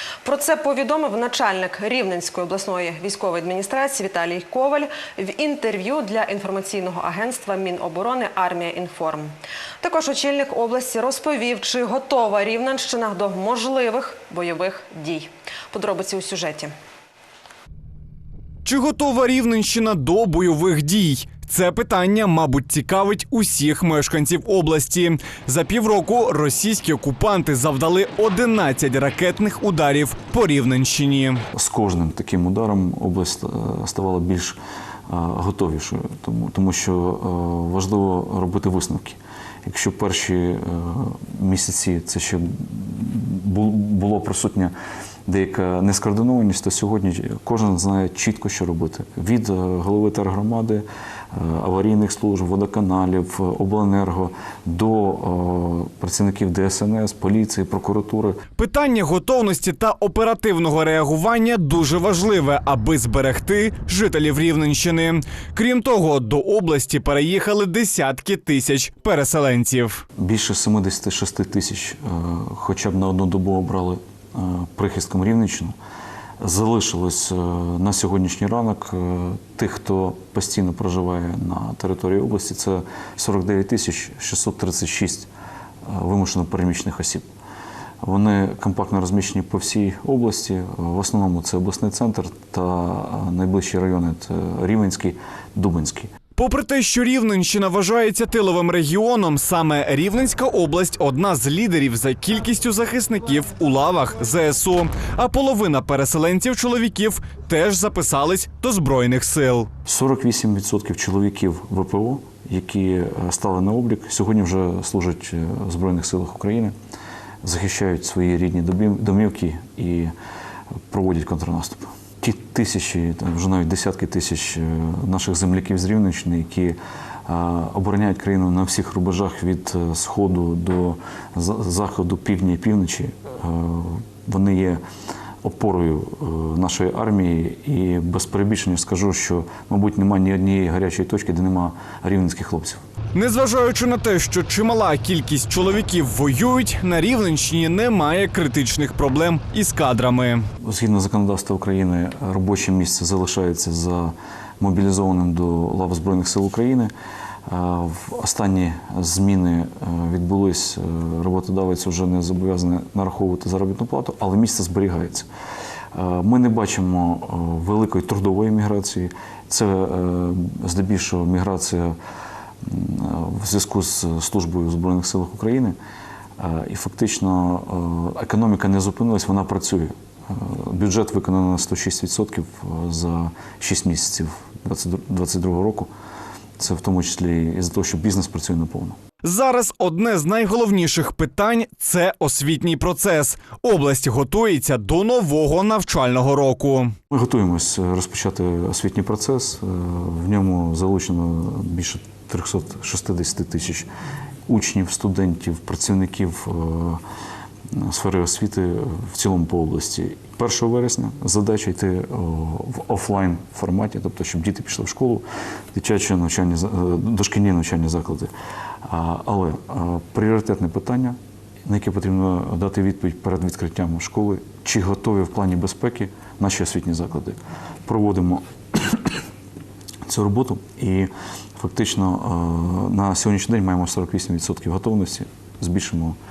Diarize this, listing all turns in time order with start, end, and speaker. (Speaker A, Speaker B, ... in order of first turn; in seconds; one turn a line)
Speaker A: 0.2-16.7
Speaker B: 18.6-31.4
Speaker C: 31.5-34.6
Speaker C: 35.1-44.7
Speaker C: 45.3-58.4
Speaker B: 58.6-70.0
Speaker C: 70.2-75.7
Speaker C: 76.4-85.3
Speaker C: 85.8-87.2
Speaker C: 88.0-96.1
Speaker B: 96.3-109.7
Speaker C: 109.8-116.7
Speaker C: 117.4-120.1
Speaker C: 120.9-134.8
Speaker C: 135.4-142.8
Speaker B: 143.1-150.4
Speaker C: 150.6-156.9
Speaker C: 157.5-165.3
Speaker C: 165.9-171.9
Speaker C: 172.6-175.7
Speaker C: 176.4-185.9
Speaker C: 186.6-189.0
Speaker B: 189.2-196.9
Speaker C: 197.1-203.9
Speaker C: 204.5-207.0
Speaker C: 207.7-218.3
Speaker C: 218.8-229.2
Speaker C: 230.1-236.2